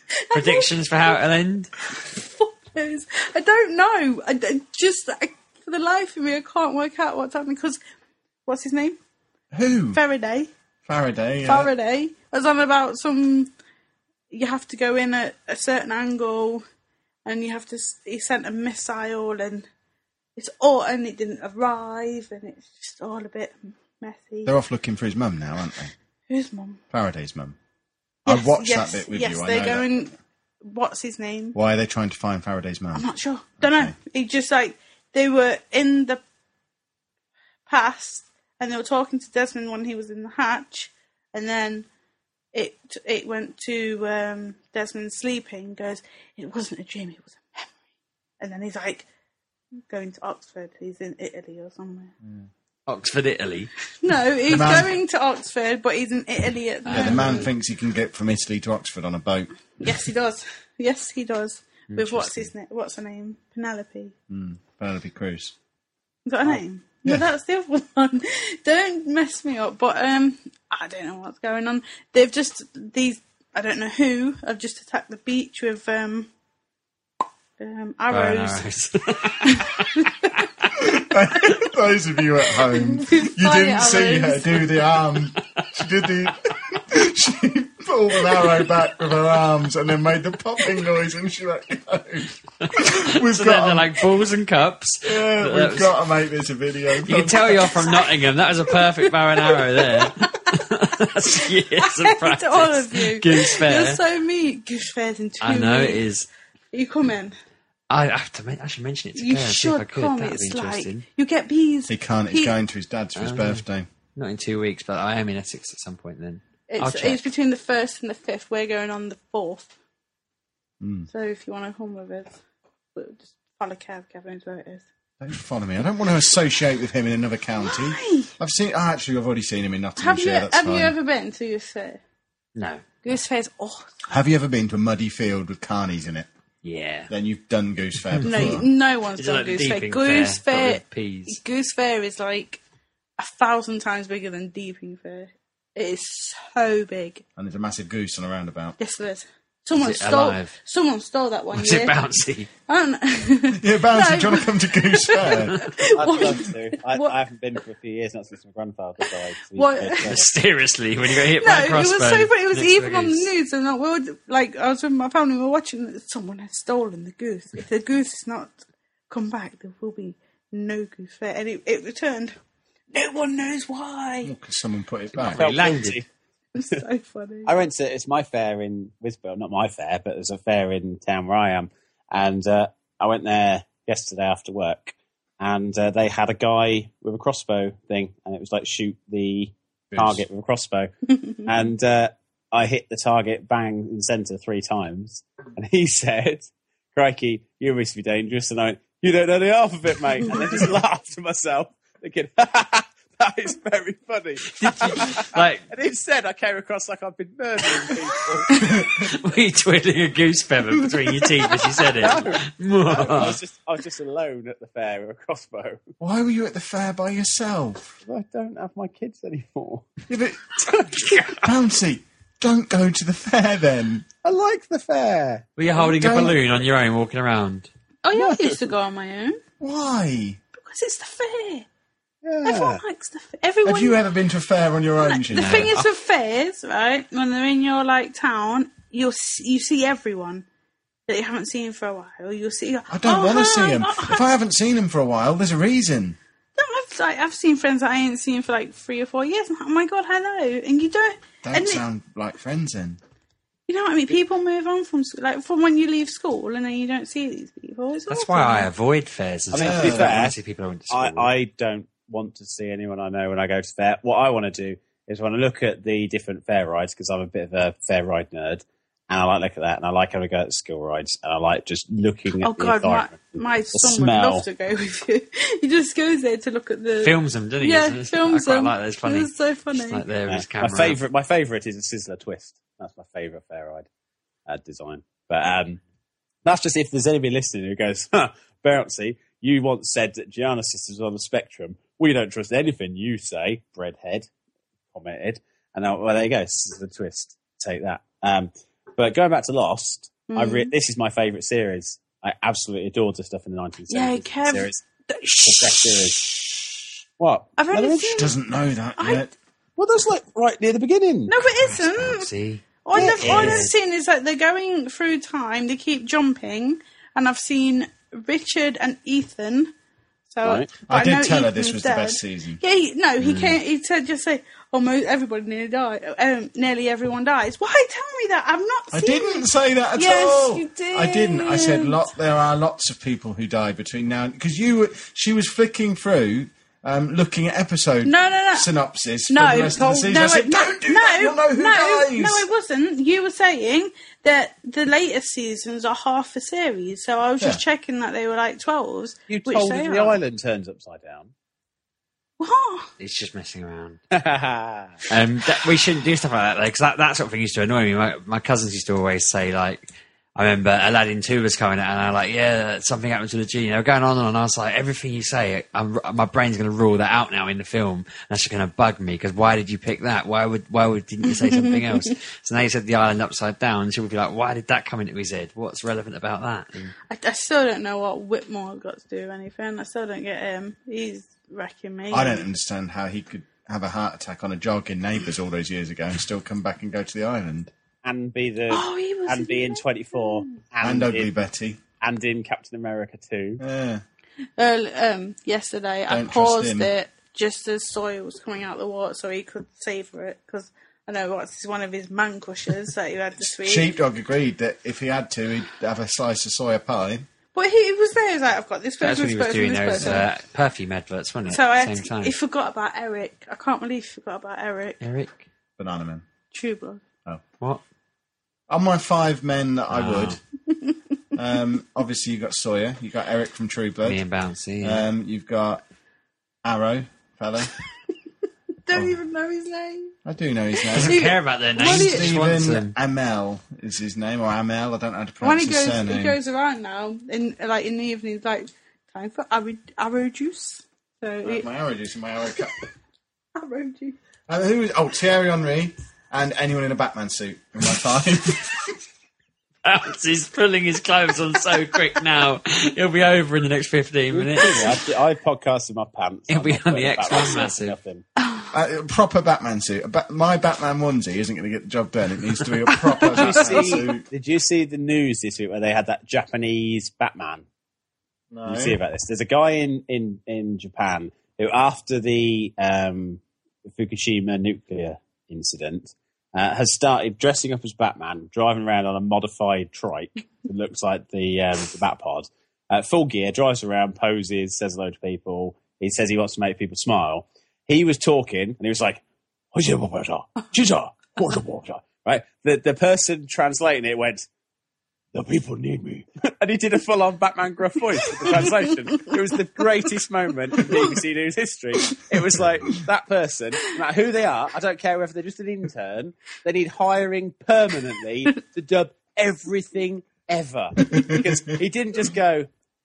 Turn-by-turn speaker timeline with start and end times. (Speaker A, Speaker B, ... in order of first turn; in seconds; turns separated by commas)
Speaker A: 0.3-1.1, Speaker B: 0.3-1.7, Speaker A: 1.9-7.8, Speaker A: 8.4-9.0, Speaker C: 9.5-10.0, Speaker A: 9.9-10.5, Speaker C: 10.8-11.7, Speaker A: 11.4-13.5, Speaker A: 14.3-16.6, Speaker A: 17.2-19.7, Speaker A: 20.4-24.5, Speaker C: 24.4-25.9, Speaker A: 26.3-26.8, Speaker C: 26.9-27.6, Speaker C: 28.2-29.9, Speaker A: 28.3-31.6, Speaker C: 31.5-33.0, Speaker A: 32.9-36.2, Speaker C: 33.6-33.9, Speaker A: 37.7-41.9, Speaker A: 42.5-47.7, Speaker A: 48.4-49.0, Speaker A: 49.9-52.1, Speaker B: 52.9-53.7, Speaker A: 54.0-57.5, Speaker C: 54.5-54.9, Speaker B: 56.9-57.5, Speaker C: 56.9-59.6, Speaker A: 59.8-64.1, Speaker B: 61.9-62.5, Speaker C: 64.3-65.5, Speaker A: 66.2-76.3, Speaker C: 66.5-67.3, Speaker A: 77.6-78.6, Speaker B: 78.1-80.1, Speaker A: 79.4-80.5, Speaker C: 80.8-94.0, Speaker A: 82.7-84.8, Speaker B: 92.6-95.9, Speaker C: 95.0-98.0, Speaker B: 97.0-104.0, Speaker A: 97.8-98.1, Speaker A: 98.7-100.6, Speaker A: 101.3-106.0, Speaker B: 105.4-106.3, Speaker A: 106.7-107.3, Speaker B: 107.9-111.0, Speaker A: 109.2-112.5, Speaker C: 111.9-113.9, Speaker B: 113.2-113.6, Speaker B: 114.2-117.2, Speaker A: 116.7-119.7, Speaker C: 120.8-121.1, Speaker A: 121.1-122.4, Speaker A: 122.9-124.8, Speaker C: 125.2-130.9, Speaker A: 127.6-128.3, Speaker A: 130.0-132.0, Speaker B: 132.6-133.0, Speaker A: 133.0-134.1, Speaker C: 134.1-136.3, Speaker B: 136.6-137.1, Speaker C: 137.1-138.7, Speaker B: 138.1-138.6, Speaker A: 138.2-142.6, Speaker B: 139.1-141.4, Speaker A: 143.2-147.2, Speaker C: 147.3-148.8, Speaker A: 148.8-151.9, Speaker B: 149.8-150.5, Speaker B: 151.5-152.5, Speaker A: 152.7-157.1, Speaker C: 153.5-155.6, Speaker D: 155.9-160.3, Speaker A: 159.5-160.1, Speaker B: 160.0-163.3, Speaker A: 161.1-172.3, Speaker A: 172.9-174.3, Speaker C: 174.2-175.5, Speaker B: 175.2-176.0, Speaker D: 175.3-176.1, Speaker A: 176.5-177.5, Speaker D: 177.4-190.9, Speaker C: 189.9-190.2, Speaker D: 191.4-208.5, Speaker B: 204.6-205.6, Speaker C: 208.6-209.1, Speaker B: 208.8-213.4, Speaker D: 212.0-215.8, Speaker C: 216.0-218.0, Speaker D: 218.0-219.9, Speaker C: 220.1-220.7, Speaker D: 220.6-221.4, Speaker C: 221.3-224.1, Speaker D: 224.2-225.5, Speaker B: 225.6-227.7, Speaker C: 225.7-226.6, Speaker A: 228.0-229.4, Speaker D: 228.2-228.6, Speaker C: 229.6-230.4, Speaker A: 230.5-231.7, Speaker D: 232.2-232.8, Speaker A: 232.4-234.0, Speaker C: 233.6-235.8, Speaker A: 235.0-240.4, Speaker B: 235.3-235.9, Speaker A: 241.1-244.2, Speaker C: 242.9-246.2, Speaker A: 246.6-251.8, Speaker C: 251.4-253.0, Speaker A: 253.7-258.7, Speaker B: 258.1-261.3, Speaker D: 259.5-260.4, Speaker C: 259.6-260.2, Speaker D: 260.9-274.4, Speaker A: 272.4-280.0, Speaker B: 277.0-281.0, Speaker D: 280.3-283.9, Speaker D: 284.5-285.8, Speaker D: 286.4-294.3, Speaker D: 294.9-304.8, Speaker A: 300.3-300.7, Speaker A: 303.9-306.6, Speaker D: 305.4-306.2, Speaker D: 307.2-308.2, Speaker A: 307.6-308.4, Speaker C: 308.1-309.3, Speaker A: 309.0-309.3, Speaker D: 309.8-311.3, Speaker A: 311.3-312.3, Speaker B: 311.4-313.7, Speaker A: 312.8-319.7, Speaker D: 312.9-313.7, Speaker A: 320.3-329.4, Speaker D: 320.4-320.7, Speaker C: 320.9-322.6, Speaker B: 323.2-323.6, Speaker C: 328.9-342.5, Speaker A: 329.9-332.0, Speaker A: 338.0-338.7, Speaker A: 339.3-350.2, Speaker D: 349.3-351.3, Speaker A: 352.4-352.9, Speaker B: 353.0-354.0, Speaker D: 354.1-355.0, Speaker B: 355.1-376.9, Speaker A: 371.4-372.1, Speaker A: 377.1-382.4, Speaker C: 382.1-387.7, Speaker D: 388.0-391.3, Speaker A: 388.7-390.6, Speaker C: 390.8-391.8, Speaker D: 392.0-393.6, Speaker C: 393.6-394.0, Speaker A: 394.6-403.9, Speaker C: 396.1-396.9, Speaker C: 403.4-407.2, Speaker A: 407.5-410.3, Speaker B: 409.0-412.3, Speaker A: 411.5-415.0, Speaker B: 415.0-415.4, Speaker C: 415.8-416.2, Speaker A: 416.5-417.0, Speaker C: 418.7-420.4, Speaker B: 419.9-420.4, Speaker A: 420.7-421.0, Speaker C: 421.3-424.2, Speaker B: 424.0-425.0, Speaker C: 424.8-425.8, Speaker C: 426.6-427.7, Speaker A: 428.9-430.1, Speaker C: 430.2-436.4, Speaker A: 430.8-432.5, Speaker B: 430.9-432.9, Speaker A: 435.4-441.6, Speaker C: 441.4-442.8, Speaker A: 443.5-444.2, Speaker C: 444.5-448.9, Speaker B: 449.8-455.0, Speaker D: 454.3-458.2, Speaker B: 456.5-457.9, Speaker A: 458.4-458.7, Speaker C: 458.7-464.2, Speaker A: 463.0-464.0, Speaker D: 463.3-467.6, Speaker C: 468.5-469.0, Speaker D: 468.6-489.2, Speaker D: 489.7-494.5, Speaker D: 495.3-512.7, Speaker A: 498.4-498.7, Speaker C: 511.1-511.4